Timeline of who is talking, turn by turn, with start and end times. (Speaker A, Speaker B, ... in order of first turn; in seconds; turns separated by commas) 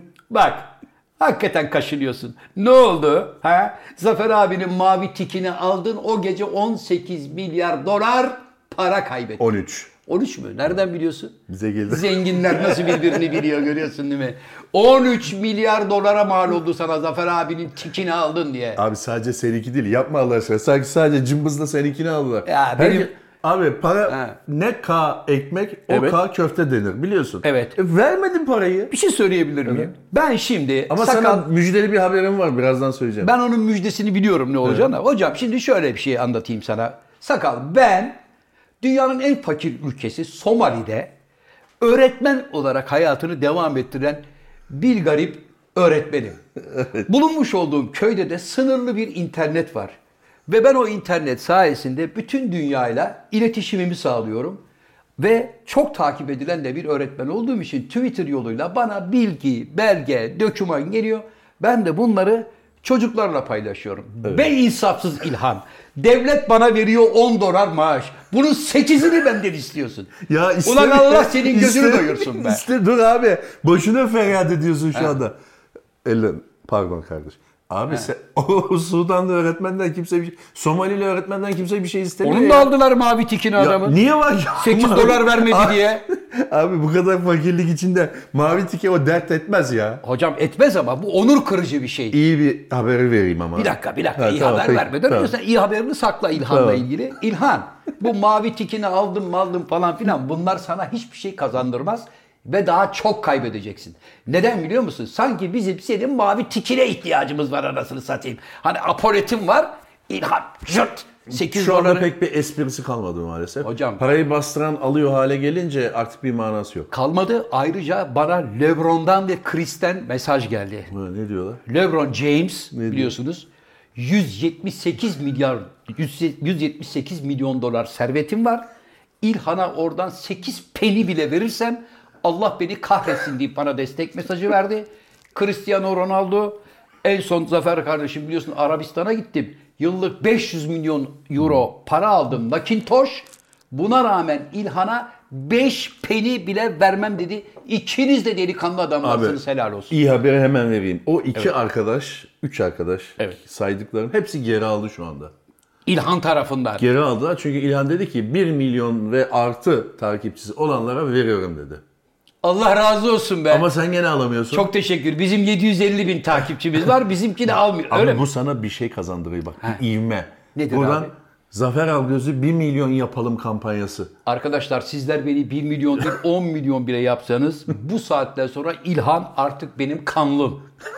Speaker A: 0.3-9.4, Speaker B: 9.4-9.9, Speaker A: 10.0-11.3, Speaker B: 11.5-13.1, Speaker A: 11.9-18.8, Speaker B: 18.8-28.9, Speaker A: 22.4-23.1, Speaker A: 24.1-24.4, Speaker A: 25.9-26.2, Speaker A: 27.4-27.8, Speaker A: 28.9-31.4, Speaker B: 29.6-29.9, Speaker B: 30.9-33.3, Speaker A: 33.2-38.2, Speaker B: 34.6-34.9, Speaker A: 38.8-41.1, Speaker A: 41.8-46.4, Speaker B: 46.8-47.0, Speaker A: 46.9-54.6, Speaker A: 55.2-72.6, Speaker B: 64.2-64.5, Speaker B: 70.2-75.3, Speaker B: 76.0-82.7, Speaker A: 82.2-84.0, Speaker B: 83.6-90.0, Speaker A: 84.5-86.0, Speaker A: 90.0-92.2, Speaker B: 92.1-95.3, Speaker A: 93.5-112.1, Speaker B: 96.3-96.8, Speaker B: 111.3-116.9, Speaker A: 113.6-114.0, Speaker A: 116.9-120.9, Speaker B: 120.9-121.6, Speaker A: 121.7-128.6, Speaker B: 122.7-123.1, Speaker A: 129.2-149.9, Speaker B: 149.0-155.3, Speaker A: 155.8-156.8, Speaker B: 156.8-161.8, Speaker A: 162.4-163.7, Speaker B: 163.5-164.7, Speaker A: 164.5-168.2, Speaker B: 167.9-174.1, Speaker A: 170.5-171.1, Speaker A: 174.2-180.7